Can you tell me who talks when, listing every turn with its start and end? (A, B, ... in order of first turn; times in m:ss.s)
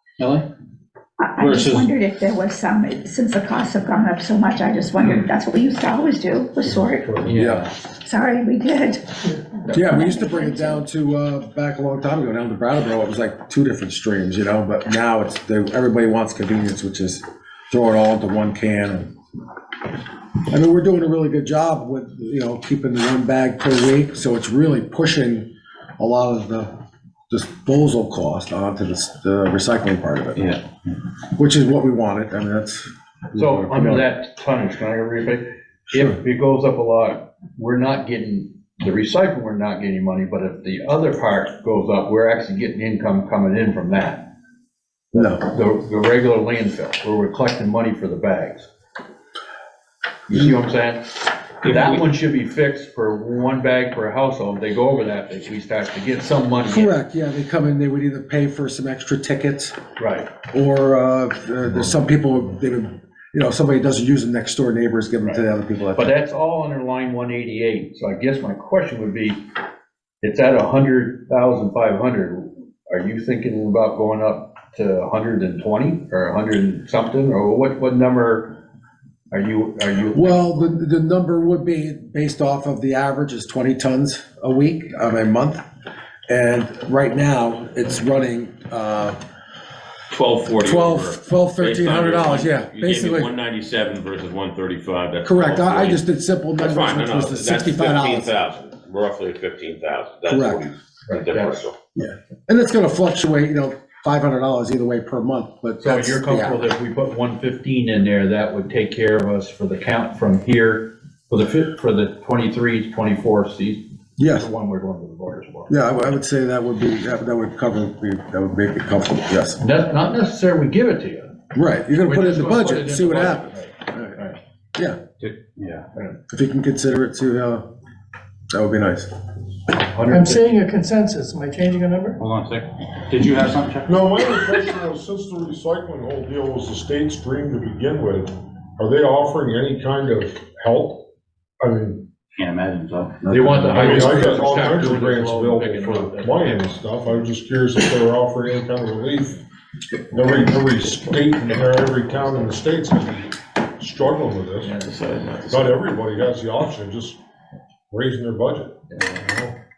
0:00.2-0:00.4 A
0:01.2-0:07.1 B
0:01.4-0:01.9 A
0:07.2-0:07.7 A
0:07.3-0:07.6 C
0:08.0-0:09.1 B
0:09.7-0:19.1 C
0:09.7-0:10.8 B
0:20.5-0:26.7 C
0:27.3-0:30.5 C
0:30.4-0:30.6 A
0:31.3-0:34.0 C
0:33.3-0:44.3 D
0:45.1-0:45.4 C
0:45.1-0:48.7 D
0:50.3-0:56.9 D
0:51.6-0:52.0 A
0:56.6-0:59.8 C
1:00.0-1:00.3 D
1:00.5-1:06.1 C
1:05.2-1:09.4 D
1:10.2-1:18.6 D
1:19.3-1:20.7 D
1:20.1-1:25.6 C
1:26.3-1:29.2 C
1:30.1-1:36.0 E
1:30.6-1:33.3 C
1:35.2-1:38.3 C
1:36.6-1:41.8 E
1:40.3-1:40.6 C
1:41.0-1:41.6 D
1:41.9-1:46.7 C
1:45.8-1:55.7 D
1:54.2-1:54.5 C
1:55.7-1:59.6 C
1:59.6-2:01.3 D
2:01.5-2:04.2 C
2:02.0-2:04.4 D
2:05.2-2:05.8 A
2:06.3-2:07.6 C
2:08.5-2:09.1 C
2:09.9-2:10.6 D
2:10.1-2:12.2 F
2:12.2-2:13.9 A
2:13.9-2:21.0 G
2:21.6-2:22.0 G
2:22.3-2:24.3 A
2:23.3-2:26.7 D
2:23.7-2:29.4 G
2:30.1-2:34.8 G
2:34.6-2:35.7 D
2:35.5-2:37.2 G
2:37.9-2:39.6 G